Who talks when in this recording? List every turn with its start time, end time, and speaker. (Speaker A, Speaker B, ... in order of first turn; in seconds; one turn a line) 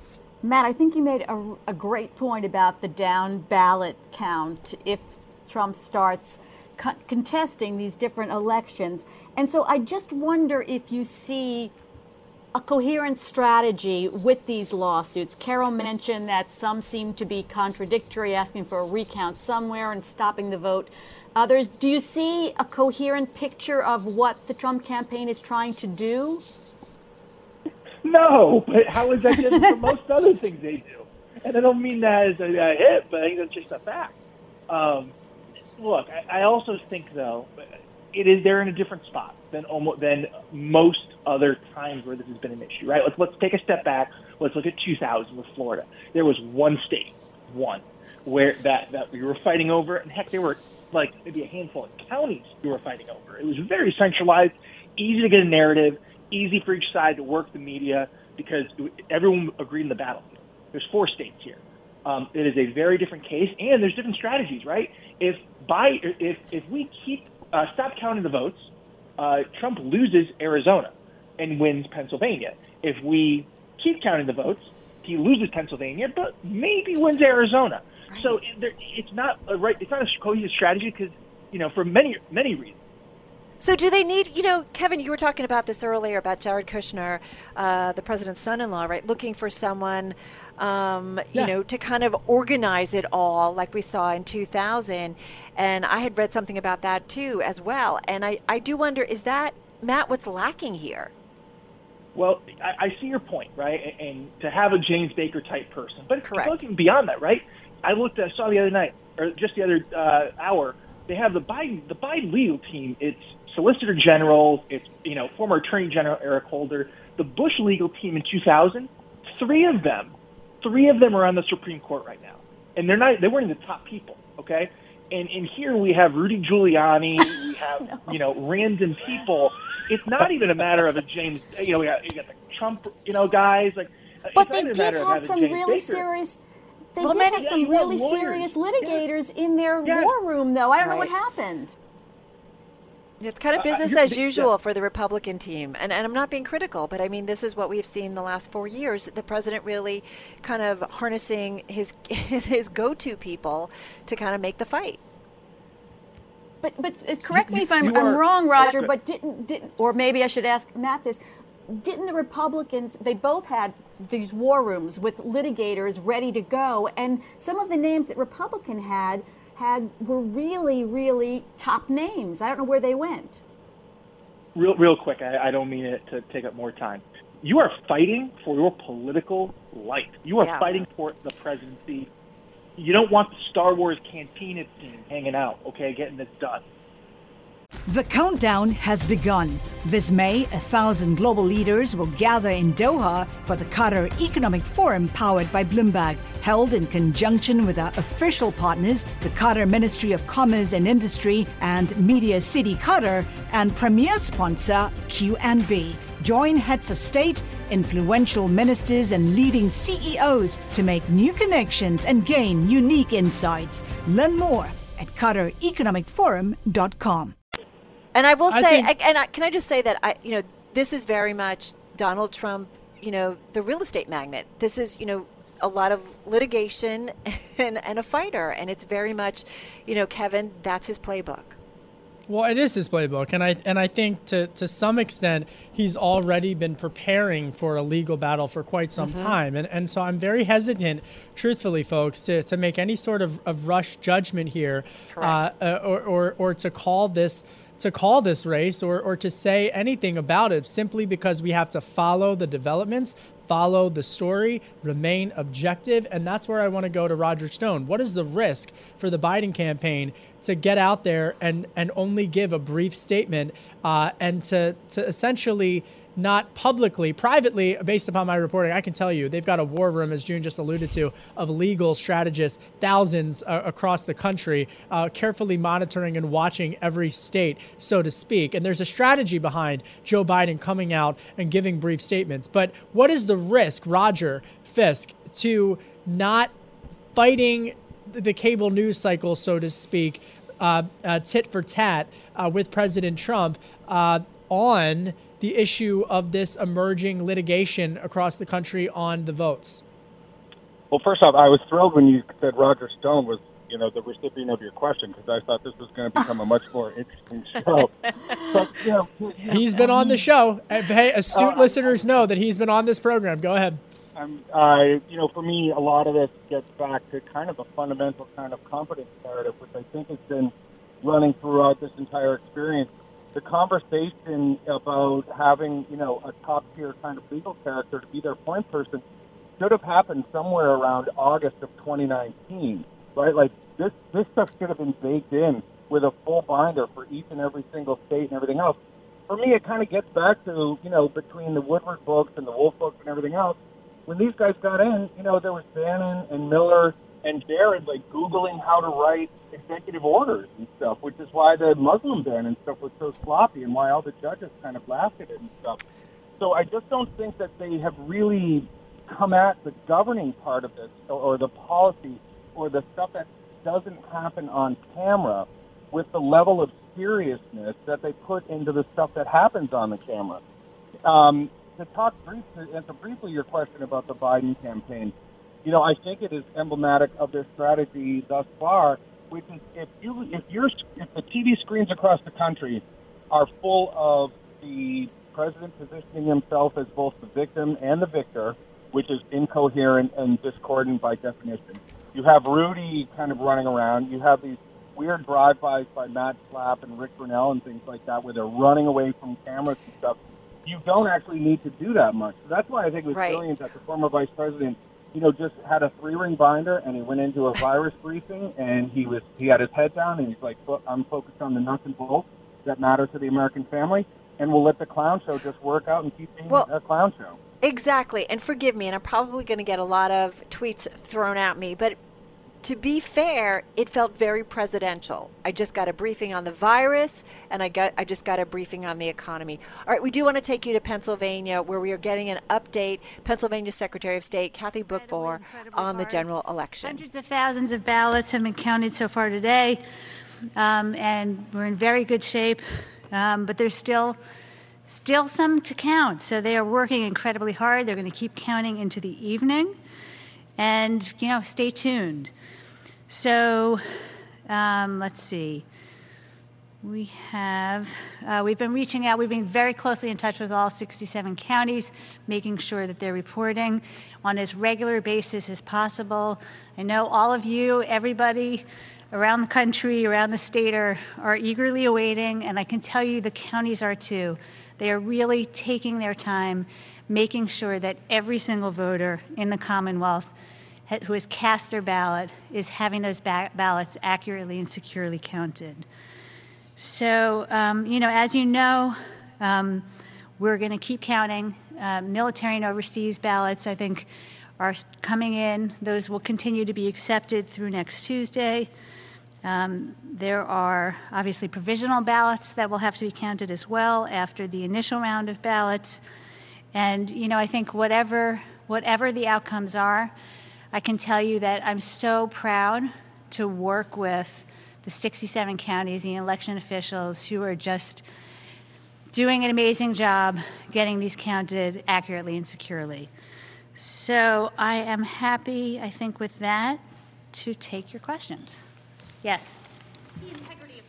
Speaker A: 0.4-11.7
Speaker A: 12.5-26.4
Speaker B: 28.0-34.1
Speaker A: 29.3-29.6
Speaker B: 34.7-35.1
Speaker B: 35.8-37.6
Speaker B: 38.1-82.8
Speaker C: 78.1-78.4
Speaker C: 83.6-101.1
Speaker B: 102.2-136.1
Speaker C: 106.2-106.6
Speaker A: 127.2-128.1
Speaker A: 134.3-136.4
Speaker A: 136.9-141.8
Speaker C: 137.0-137.3
Speaker B: 137.2-139.0
Speaker B: 139.8-140.1
Speaker C: 140.8-141.1
Speaker C: 143.2-155.0
Speaker B: 143.5-144.5
Speaker A: 156.6-173.4
Speaker B: 157.3-158.9
Speaker B: 174.5-182.1
Speaker C: 180.4-180.8
Speaker B: 182.8-186.6
Speaker D: 187.9-217.3
Speaker C: 218.1-231.6
Speaker E: 218.5-218.9
Speaker E: 232.3-286.5
Speaker C: 239.0-239.4
Speaker C: 245.1-245.5
Speaker E: 287.1-299.8
Speaker F: 300.9-310.1
Speaker C: 308.1-308.4
Speaker C: 309.4-310.1
Speaker E: 309.5-313.8
Speaker F: 311.3-312.1
Speaker F: 314.1-329.0
Speaker F: 329.6-338.8
Speaker F: 339.3-355.8
Speaker F: 356.4-370.4
Speaker F: 371.1-375.1
Speaker F: 375.6-417.4
Speaker C: 403.1-403.4
Speaker C: 417.6-422.0
Speaker C: 422.6-437.0
Speaker G: 434.9-436.3
Speaker G: 436.8-439.8
Speaker G: 440.6-444.2
Speaker G: 444.9-449.7
Speaker G: 450.6-452.3
Speaker G: 453.1-453.8
Speaker G: 454.5-455.6
Speaker G: 456.8-480.3
Speaker G: 480.9-485.9
Speaker G: 486.8-489.9
Speaker G: 490.4-494.1
Speaker G: 494.6-498.7
Speaker G: 499.4-506.0
Speaker G: 506.7-510.1
Speaker G: 510.7-518.0
Speaker G: 519.1-523.1
Speaker G: 523.8-526.8
Speaker G: 527.3-528.6
Speaker G: 529.2-529.6
Speaker G: 530.2-530.8